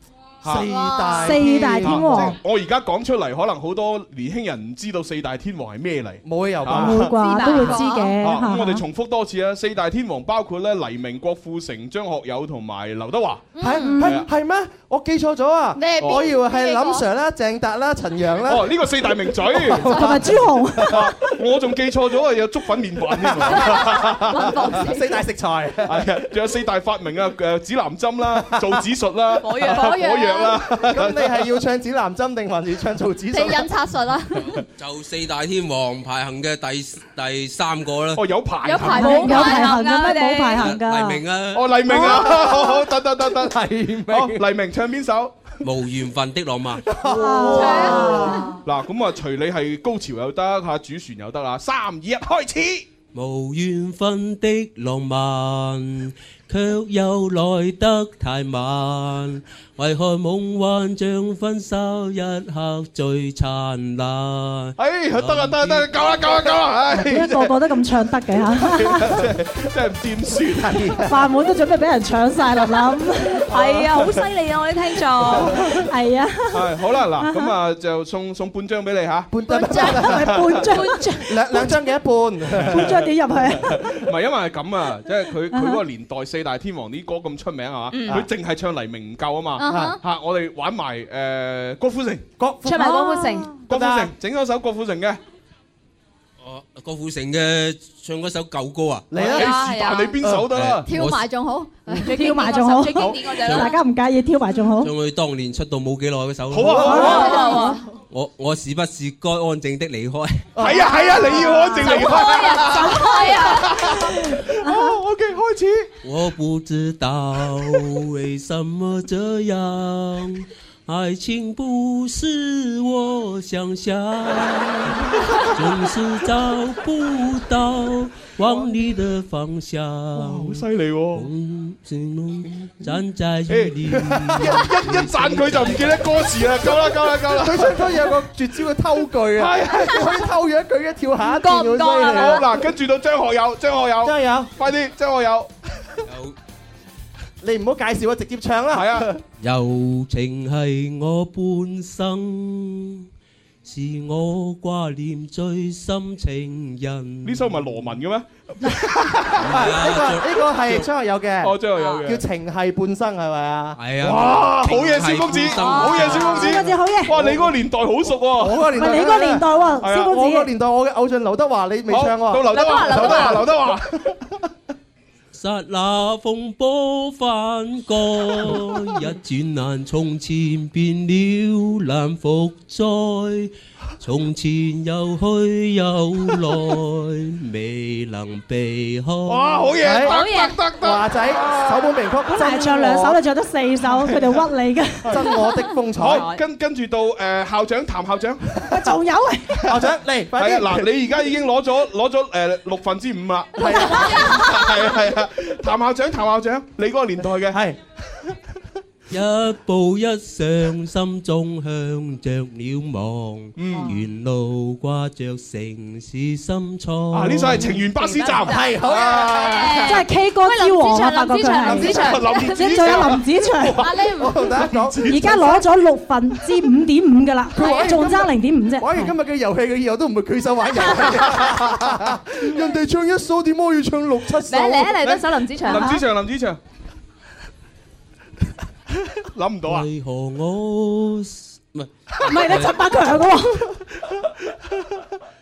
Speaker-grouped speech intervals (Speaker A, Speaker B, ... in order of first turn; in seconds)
Speaker A: 0.4-0.7, 1.8-7.2, 8.2-13.5, 14.0-14.3, 18.4-20.2, 20.8-24.4, 25.9-31.4, 38.1-39.3, 41.5-45.6, 48.6-52.9, 64.8-67.5, 68.7-71.0, 73.5-74.1, 75.3-75.8, 76.5-80.7, 82.6-83.1, 83.7-92.3, 93.7-95.2, 99.2-100.9, 106.5-107.4, 110.6-115.9, 125.1-125.5, 130.2-131.3, 132.5-133.0, 133.5-137.8, 139.3-140.1, 142.1-145.5, 148.7-149.1, 157.2-159.6, 161.4-162.2, 164.0-168.7, 169.8-170.2, 171.9-174.0, 189.3-191.9, 195.9-198.4, 200.3-207.6, 213.6-213.9, 217.1-219.6, 221.9-225.4, 235.7-236.6, 239.1-239.9, 244.0-245.0
Speaker B: 0.4-2.4, 6.3-7.0, 13.6-21.3, 23.1-26.1, 28.6-28.8, 30.7-33.7, 41.9-44.4, 46.9-48.4, 70.6-71.1, 79.3-80.4, 81.3-83.0, 89.7-90.0, 92.4-93.0, 93.7-94.1, 99.1-99.7, 100.2-100.5, 106.7-107.5, 110.6-111.8, 134.3-134.6, 137.4-142.5, 144.1-144.5, 147.4-149.2, 159.4-163.8, 168.3-169.4, 169.9-174.1, 189.8-190.2, 190.8-193.2, 195.1-196.3, 199.7-200.9, 203.6-204.4, 207.5-207.8, 218.4-220.0, 221.7-222.6, 223.7-225.6, 227.6-236.0
Speaker C: 0.7-1.1, 7.5-8.2, 13.6-14.1, 15.8-17.1, 23.5-25.2, 29.8-30.6, 33.3-34.6, 38.6-39.6, 47.5-48.5, 89.6-90.0, 100.8-102.1, 107.3-107.8
Speaker D: 1.1-2.4, 6.7-8.8, 13.8-14.1, 19.8-21.0, 38.9-41.2, 47.1-48.5, 66.9-69.2, 71.1-73.4, 75.9-77.5, 79.4-81.8, 82.7-83.8, 85.5-85.8, 92.7-93.5, 102.1-104.9, 106.8-107.8, 114.6-115.0, 166.0-167.2, 168.7-170.5, 192.3-195.2, 198.7-199.6, 203.7-204.3, 219.8-223.9, 225.1-229.1, 242.2-243.6
Speaker E: 7.1-8.1, 29.4-30.5, 38.9-40.7, 73.5-75.6, 87.9-88.3, 92.6-93.5, 99.2-100.2, 102.0-103.8, 106.9-107.8, 111.7-113.9, 141.2-142.5, 161.7-162.1, 165.5-166.5, 172.5-173.4, 189.9-190.6, 196.0-196.4, 217.9-223.2, 223.8-224.4, 227.6-228.1, 230.8-231.2, 234.5-236.0
Speaker F: 34.5-38.3, 40.6-41.8, 45.6-46.8, 53.1-65.9, 96.4-99.1, 100.5-101.2, 104.8-107.3, 108.1-110.5, 116.0-136.0, 146.1-146.3, 149.4-153.1, 153.6-158.0, 159.4-160.9, 163.8-166.5, 175.3-189.7, 209.1-217.7, 239.6-242.8